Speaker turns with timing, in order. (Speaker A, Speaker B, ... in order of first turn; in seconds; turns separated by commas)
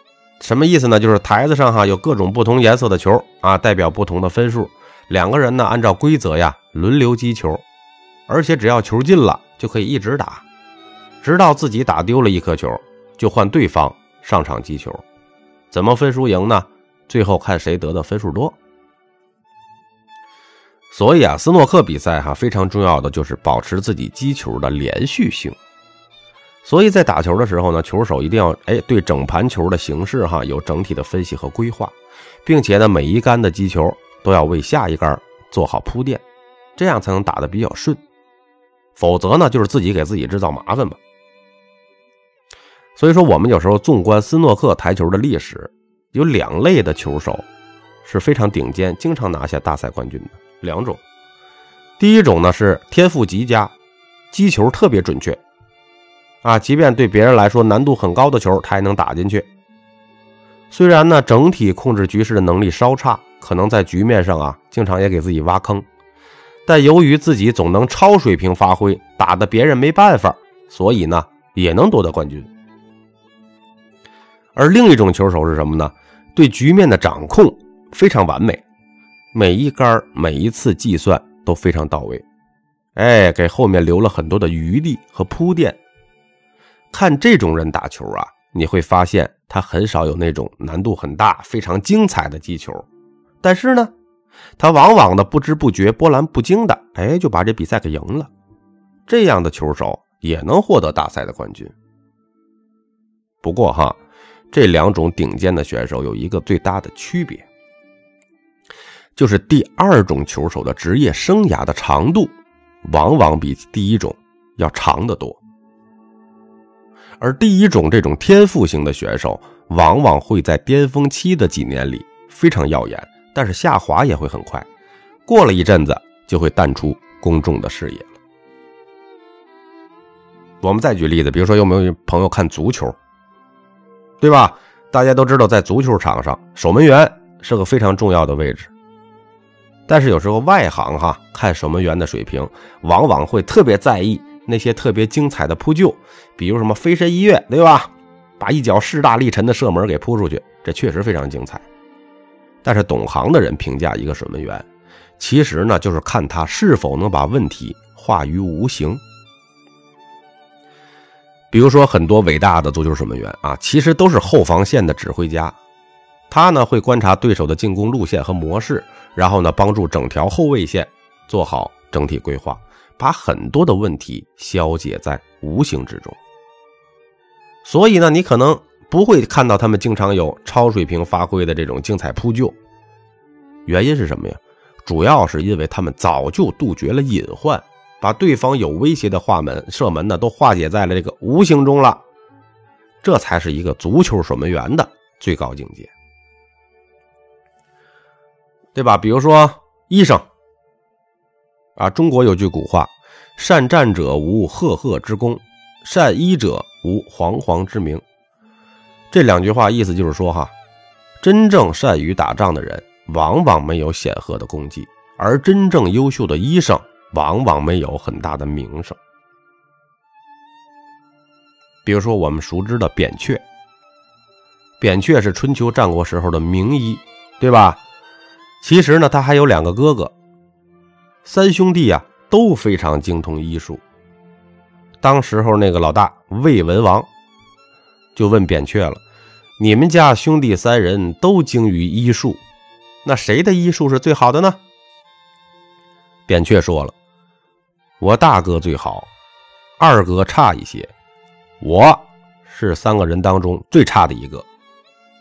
Speaker A: 0.4-7.6, Speaker A: 8.3-10.4, Speaker A: 11.2-15.0, Speaker A: 15.7-18.6, Speaker A: 20.9-25.6, Speaker A: 26.6-36.2, Speaker A: 36.8-38.0, Speaker A: 38.9-41.0, Speaker A: 43.0-47.5, Speaker A: 48.0-51.0, Speaker A: 52.0-53.7, Speaker A: 54.3-55.4, Speaker A: 56.4-59.5, Speaker A: 60.7-65.9, Speaker A: 66.7-72.5, Speaker A: 74.5-78.6, Speaker A: 79.3-82.2, Speaker A: 83.0-85.8, Speaker A: 86.9-92.8, Speaker A: 93.4-93.9, Speaker A: 94.6-98.3, Speaker A: 99.1-101.7, Speaker A: 103.4-104.0, Speaker A: 104.5-107.4, Speaker A: 109.2-112.3, Speaker A: 112.8-115.4, Speaker A: 117.2-124.7, Speaker A: 125.2-128.1, Speaker A: 130.6-133.0, Speaker A: 134.2-138.7, Speaker A: 139.9-151.6, Speaker A: 152.6-154.7, Speaker A: 155.2-159.0, Speaker A: 161.5-165.6, Speaker A: 166.3-176.2, Speaker A: 177.6-182.6, Speaker A: 183.7-192.0, Speaker A: 193.0-195.9, Speaker A: 198.7-200.2, Speaker A: 201.8-208.0, Speaker A: 209.1-210.5, Speaker A: 211.2-219.0, Speaker A: 221.8-223.4, Speaker A: 224.8-227.8, Speaker A: 228.6-230.1, Speaker A: 231.2-233.8, Speaker A: 235.0-237.1, Speaker A: 238.1-239.0, Speaker A: 239.6-242.4, Speaker A: 243.0-244.6, Speaker A: 246.3-246.9, Speaker A: 248.0-249.1, Speaker A: 249.8-250.9, Speaker A: 251.6-254.4